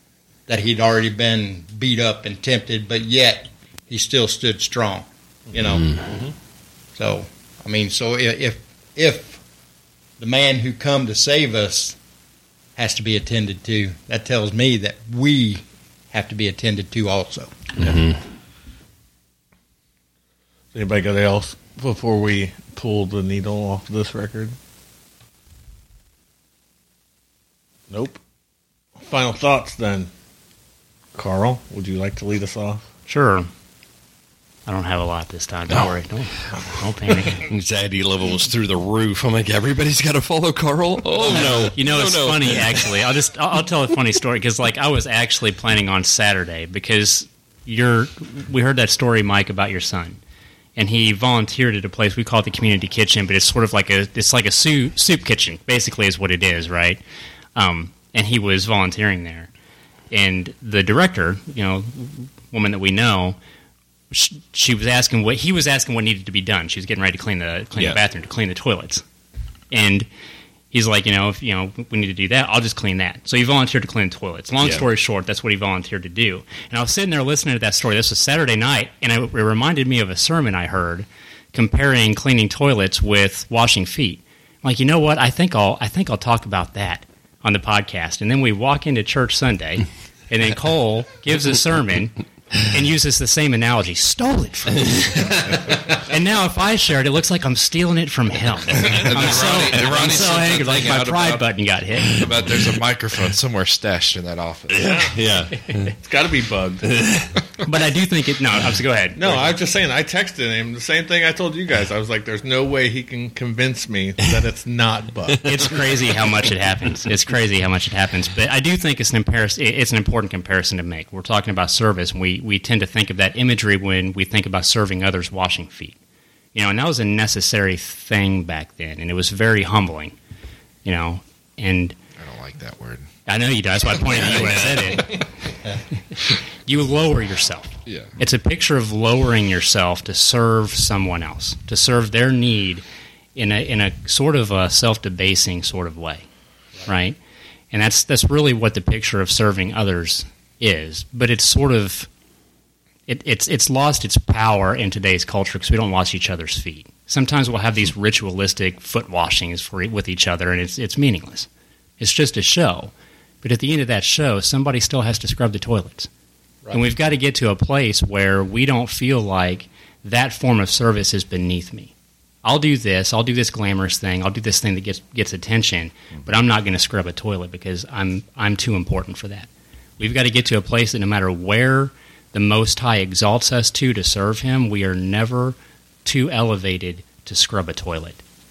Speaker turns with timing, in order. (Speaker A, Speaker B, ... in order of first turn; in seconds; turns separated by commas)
Speaker A: 0.5-6.0, Speaker B: 5.6-6.2, Speaker C: 6.0-6.3, Speaker A: 7.0-9.4, Speaker A: 10.2-12.0, Speaker A: 12.8-17.6, Speaker B: 17.8-18.2, Speaker C: 20.7-24.6, Speaker C: 27.9-28.2, Speaker C: 29.0-30.1, Speaker C: 31.1-32.8, Speaker D: 33.1-33.5, Speaker D: 34.7-37.4, Speaker B: 35.7-43.0, Speaker C: 41.3-41.7, Speaker D: 41.3-50.2, Speaker D: 50.8-57.0, Speaker D: 57.6-59.5, Speaker D: 60.1-63.4, Speaker D: 64.1-69.0, Speaker D: 69.7-70.1, Speaker D: 70.7-102.1, Speaker B: 95.0-95.5, Speaker E: 98.8-101.5, Speaker B: 99.9-100.2, Speaker B: 102.0-102.7, Speaker E: 102.2-104.9, Speaker B: 104.7-106.0, Speaker C: 104.8-105.2, Speaker C: 106.0-106.9, Speaker B: 106.8-107.5, Speaker D: 107.6-109.6, Speaker C: 109.2-115.7, Speaker D: 115.4-126.0, Speaker B: 115.5-115.8, Speaker D: 126.5-130.2, Speaker D: 130.8-132.0, Speaker E: 132.2-133.1, Speaker D: 133.3-135.3, Speaker B: 134.1-135.2, Speaker D: 136.1-142.8, Speaker E: 137.9-138.2, Speaker D: 143.3-146.3, Speaker D: 146.9-147.2, Speaker D: 147.7-152.1, Speaker D: 153.1-161.5, Speaker D: 162.0-166.1, Speaker D: 166.7-171.9, Speaker D: 172.4-188.2